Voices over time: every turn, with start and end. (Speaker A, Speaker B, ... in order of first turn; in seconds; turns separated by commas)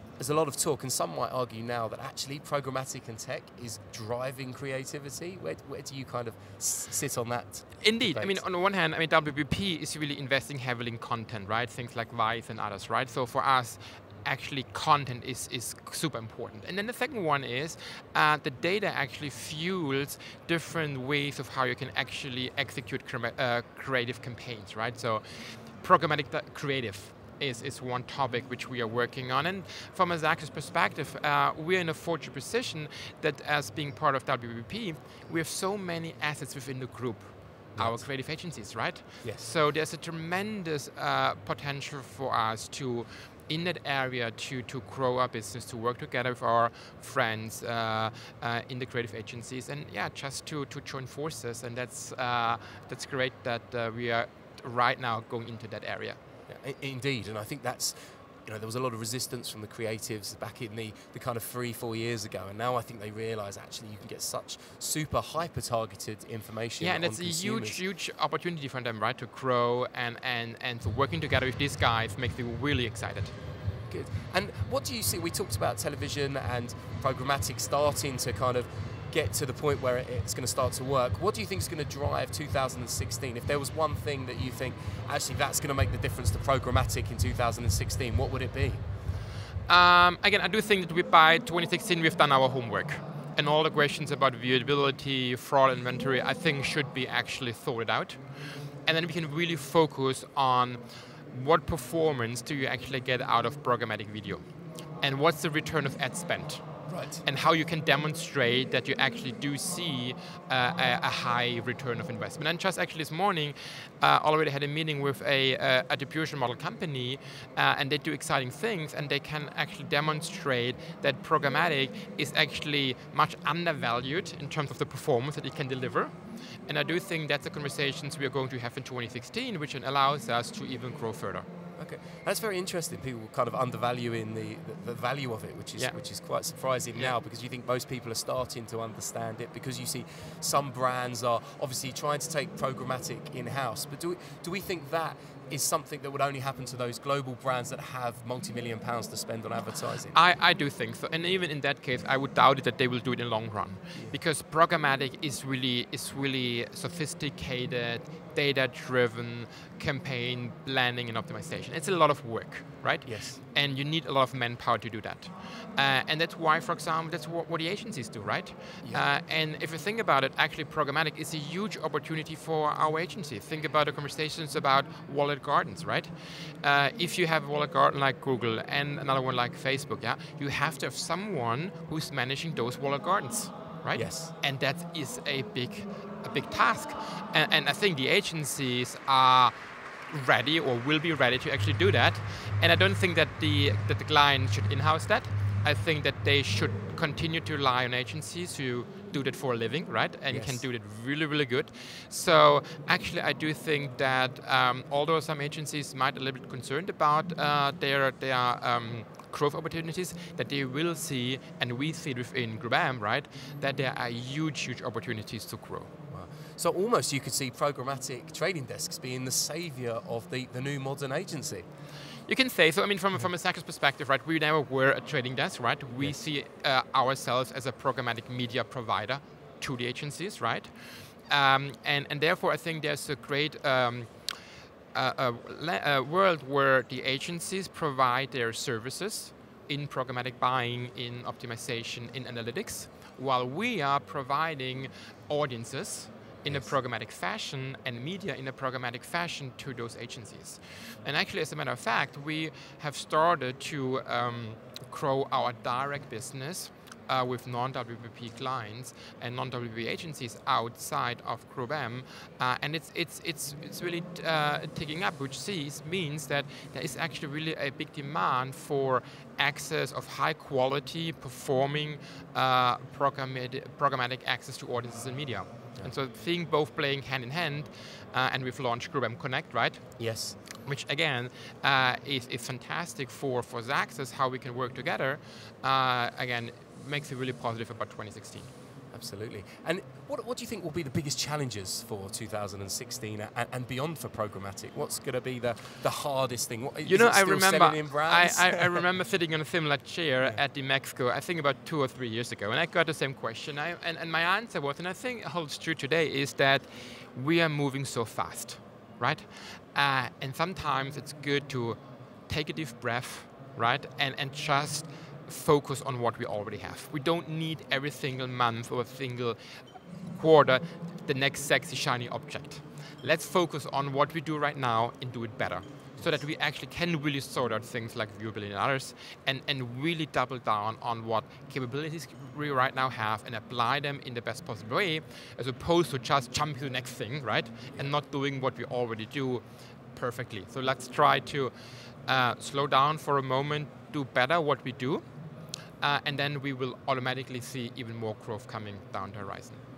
Speaker A: 0.2-8.4, Speaker B: 7.8-56.2, Speaker A: 37.8-38.1, Speaker A: 39.2-39.5, Speaker A: 56.5-67.8, Speaker B: 66.8-73.3, Speaker A: 73.9-88.8, Speaker B: 89.7-98.2, Speaker B: 98.8-104.4, Speaker B: 105.0-126.1, Speaker A: 106.9-107.2, Speaker B: 126.7-131.4, Speaker A: 131.8-150.2, Speaker B: 135.8-137.1, Speaker B: 150.1-189.5, Speaker A: 163.1-163.4, Speaker A: 183.9-184.3, Speaker B: 190.1-215.9, Speaker A: 200.3-200.6, Speaker A: 216.1-221.7, Speaker B: 222.3-234.1, Speaker B: 234.9-288.5, Speaker A: 246.4-246.7, Speaker A: 280.0-280.4, Speaker A: 288.9-298.8, Speaker B: 296.8-319.4, Speaker B: 320.1-339.4, Speaker A: 326.0-326.2, Speaker B: 339.9-341.5, Speaker B: 342.1-345.0, Speaker B: 345.8-349.6